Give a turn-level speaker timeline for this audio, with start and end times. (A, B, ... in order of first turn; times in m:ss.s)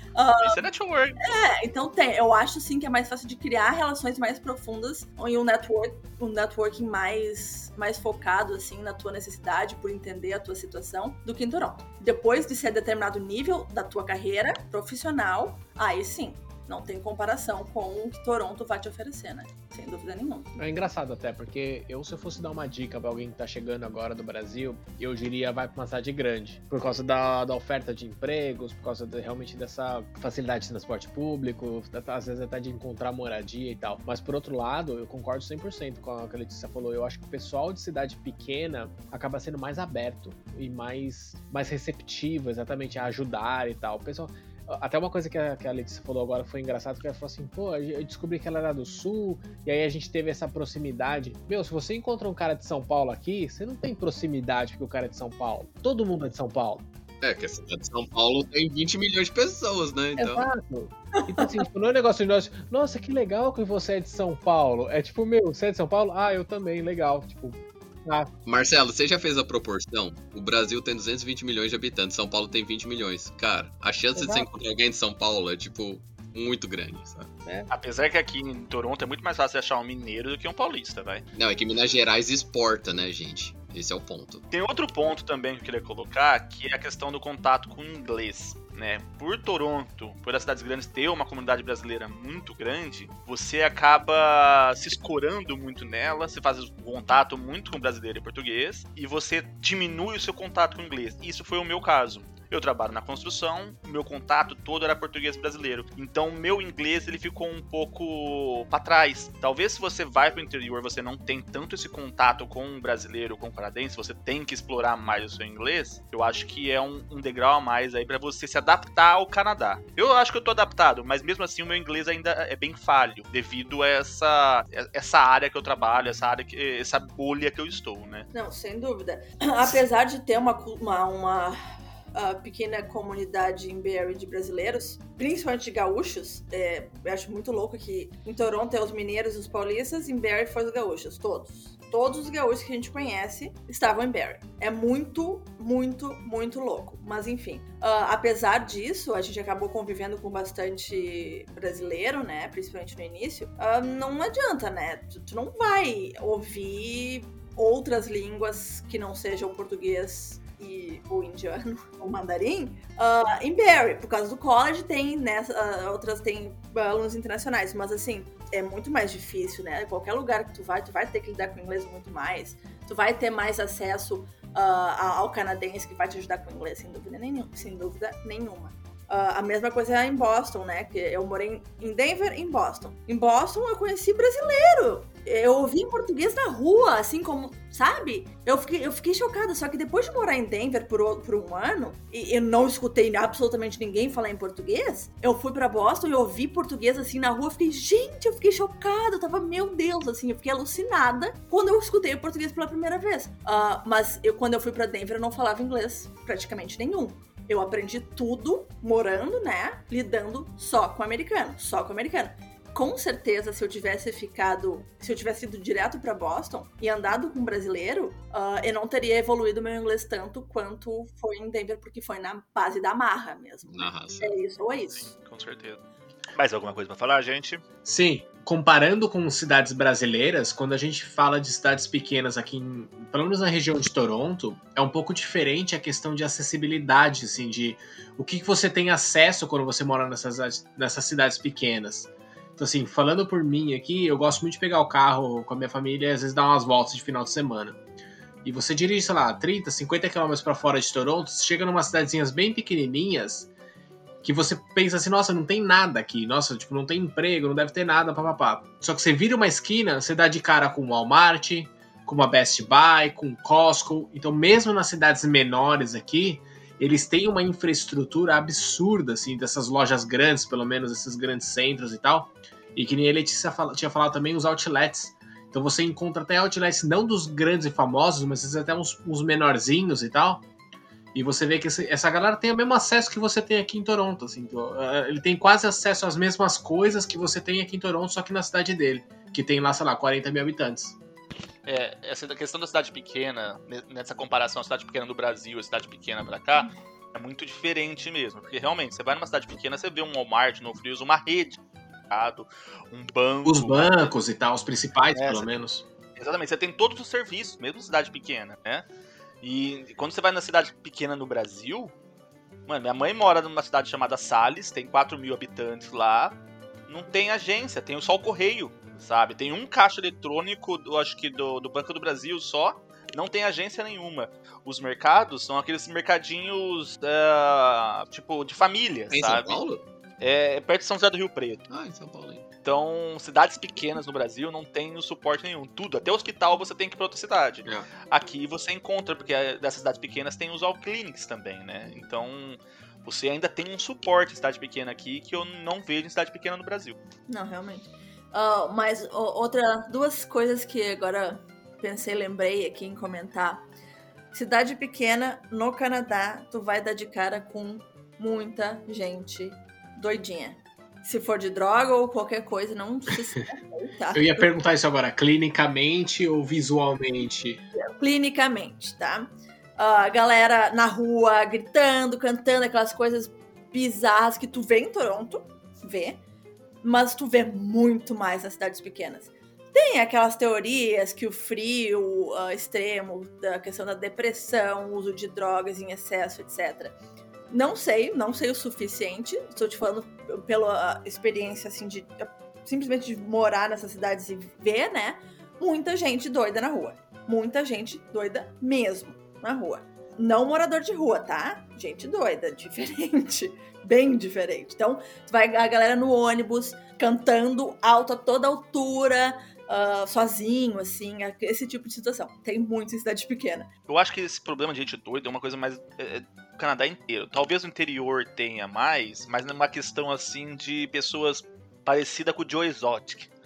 0:00.1-0:00.6 A
0:00.4-0:01.3 B
0:01.2-0:20.5 A
0:20.6-0:56.8 C
0:57.2-1:00.5 D
1:00.2-1:08.3 C
1:08.4-1:17.4 D
1:14.1-1:14.5 C
1:17.7-1:21.2 B
1:21.3-1:24.4 D
1:24.5-2:08.3 B
2:08.3-2:11.6 A
2:12.1-3:45.1 A
3:43.6-3:44.4 D
3:44.9-3:45.8 B
3:46.4-3:47.6 B
3:47.8-4:07.8 C
4:08.4-4:13.5 C
4:14.2-4:40.4 C
4:41.1-4:51.0 C
4:51.6-5:01.6 B
5:02.1-5:04.1 B
5:03.4-5:05.8 C
5:05.1-5:05.5 B
5:06.2-5:08.8 B
5:09.4-5:11.9 B
5:12.7-5:16.4 B
5:16.9-5:29.6 B
5:29.1-5:29.8 D
5:30.2-5:31.6 B
5:31.7-5:32.4 D
5:32.6-5:47.0 B
5:47.3-5:53.7 A
5:54.3-6:04.5 A
6:04.1-6:07.6 C
6:07.7-6:16.2 A
6:16.8-6:27.0 A
6:27.5-6:53.7 A
6:53.9-7:03.3 B